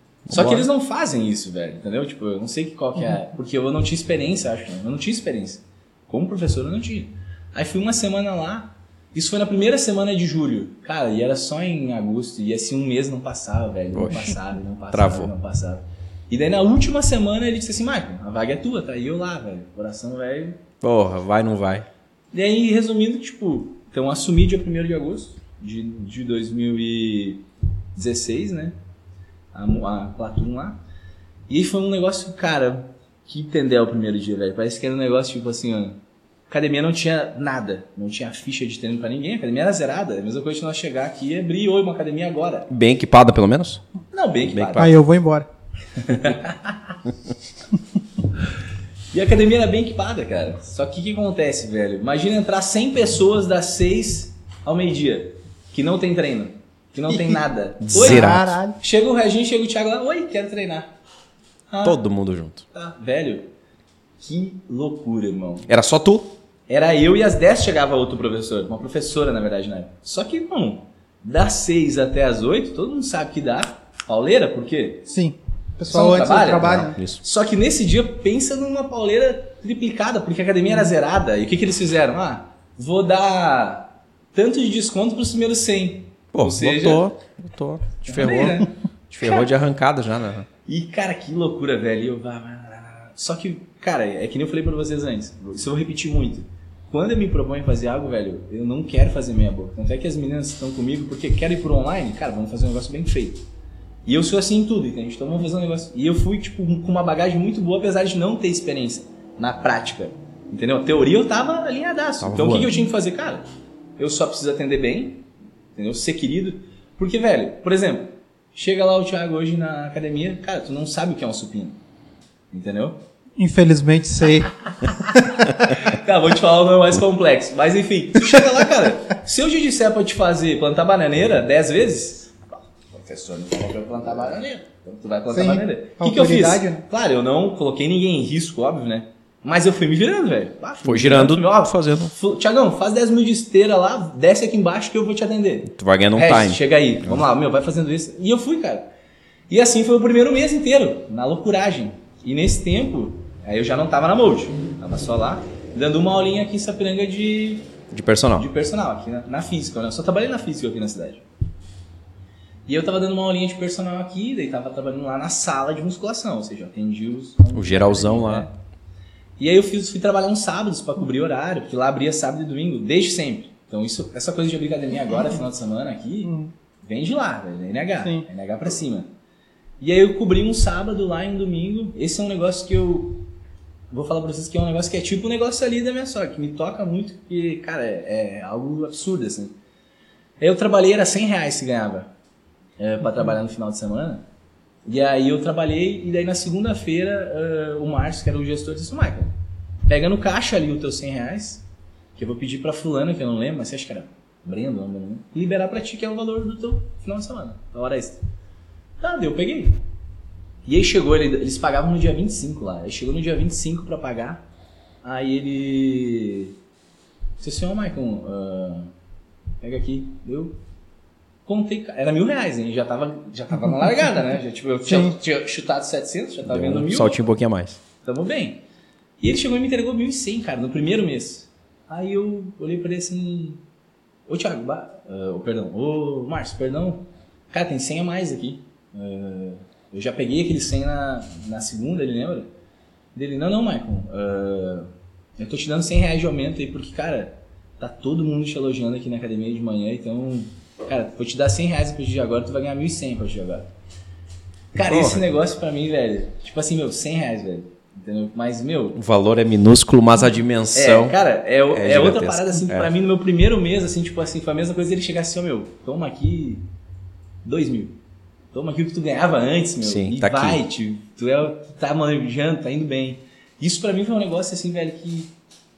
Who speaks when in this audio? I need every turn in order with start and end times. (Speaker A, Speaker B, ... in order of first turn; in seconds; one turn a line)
Speaker A: 0.3-0.7
Speaker B: 0.3-20.6
Speaker A: 13.9-14.3
Speaker A: 14.9-15.3
Speaker A: 20.8-21.9
Speaker B: 22.3-27.4
Speaker B: 27.9-28.8
Speaker B: 29.5-30.8
Speaker B: 31.5-36.0
Speaker B: 36.5-42.7
Speaker A: 42.7-43.8
Speaker B: 44.1-44.9
Speaker A: 44.5-44.9
Speaker C: 44.8-45.5
Speaker B: 46.0-47.0
Speaker B: 49.1-60.9
Speaker C: 57.1-57.4
Speaker A: 57.8-58.5
Speaker C: 57.9-58.8
Speaker B: 61.7-62.0
Speaker A: 61.8-62.6
Speaker B: 62.7-63.5
Speaker B: 64.2-65.7
Speaker A: 65.7-66.3
Speaker B: 66.7-75.1
Speaker C: 75.1-77.0
Speaker B: 75.9-87.1
Speaker A: 76.6-77.2
Speaker A: 86.3-90.5
Speaker B: 88.0-88.7
Speaker B: 90.7-103.5
Speaker B: 104.1-113.5
Speaker A: 112.2-112.8
Speaker B: 114.0-121.8
Speaker B: 122.5-123.0
Speaker C: 123.4-125.5
Speaker B: 125.0-148.9
Speaker C: 135.3-136.8
Speaker A: 140.8-142.1
Speaker A: 145.7-147.2
Speaker B: 149.5-157.7
Speaker A: 157.9-158.5
Speaker B: 158.4-161.2
Speaker B: 162.7-168.5
Speaker A: 167.5-168.5
Speaker B: 169.4-179.1
Speaker C: 176.2-176.5
Speaker B: 179.8-183.2
Speaker B: 183.9-189.5
Speaker B: 190.4-192.1
Speaker B: 192.8-194.2
Speaker B: 194.8-199.3
Speaker B: 199.9-201.6
Speaker B: 202.2-208.2
Speaker B: 209.0-209.8
Speaker B: 210.7-214.4
Speaker B: 215.0-216.6
Speaker B: 217.4-218.9
Speaker B: 219.6-220.6
Speaker B: 221.5-227.2
Speaker C: 224.9-225.2
Speaker A: 226.5-227.8
Speaker B: 228.0-228.6
Speaker B: 229.2-233.6
Speaker B: 234.3-242.5
Speaker B: 243.2-253.7
Speaker B: 254.7-259.0
Speaker A: 254.9-255.3
Speaker A: 259.0-262.9
Speaker B: 260.7-266.6
Speaker B: 267.4-268.0
Speaker B: 268.5-275.3
Speaker A: 269.8-270.6